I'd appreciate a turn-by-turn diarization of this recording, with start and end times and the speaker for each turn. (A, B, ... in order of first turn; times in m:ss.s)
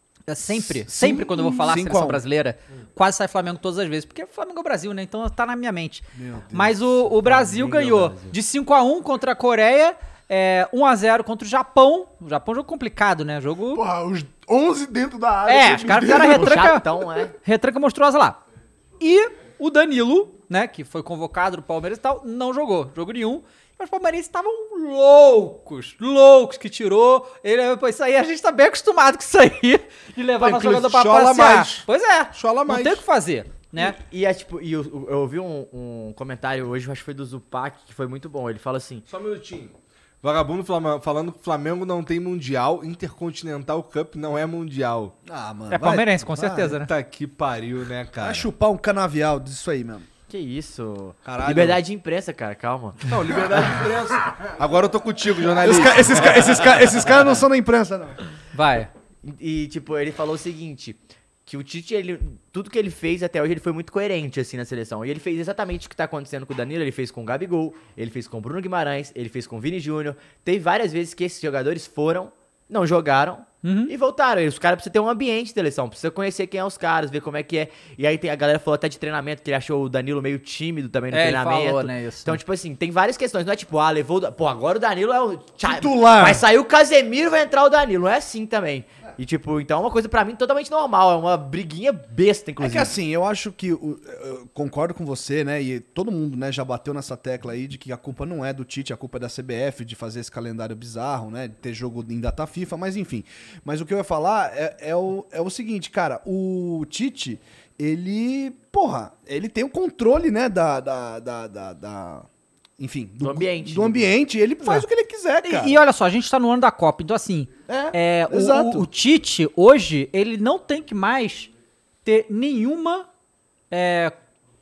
0:00.3-0:13.8 A
0:00.5-0:02.2 B
0:06.2-0:06.9 B
0:07.2-0:08.4 C
0:13.7-0:16.7 D
0:15.5-0:18.4 A
0:16.1-0:17.3 C
0:19.0-0:34.0 A
0:30.4-0:33.0 E
0:33.8-0:39.1 C
0:39.1-0:45.1 E
0:45.3-0:46.8 B
0:45.7-0:46.9 A
0:46.9-0:48.5 E
0:48.2-0:50.1 B
0:50.3-0:53.1 C
0:51.2-0:51.8 E
0:53.1-0:56.9 E
0:55.6-0:58.2 B
0:58.5-0:58.9 A
0:59.2-1:32.9 C
1:13.6-1:13.9 A
1:21.1-1:22.4 A
1:25.6-1:26.4 B
1:32.6-1:52.3 B
1:52.8-1:55.8 B
1:53.2-1:54.1 C
1:55.4-2:01.5 A
1:57.7-1:58.9 B
2:02.0-2:03.1 A
2:03.7-2:04.1 A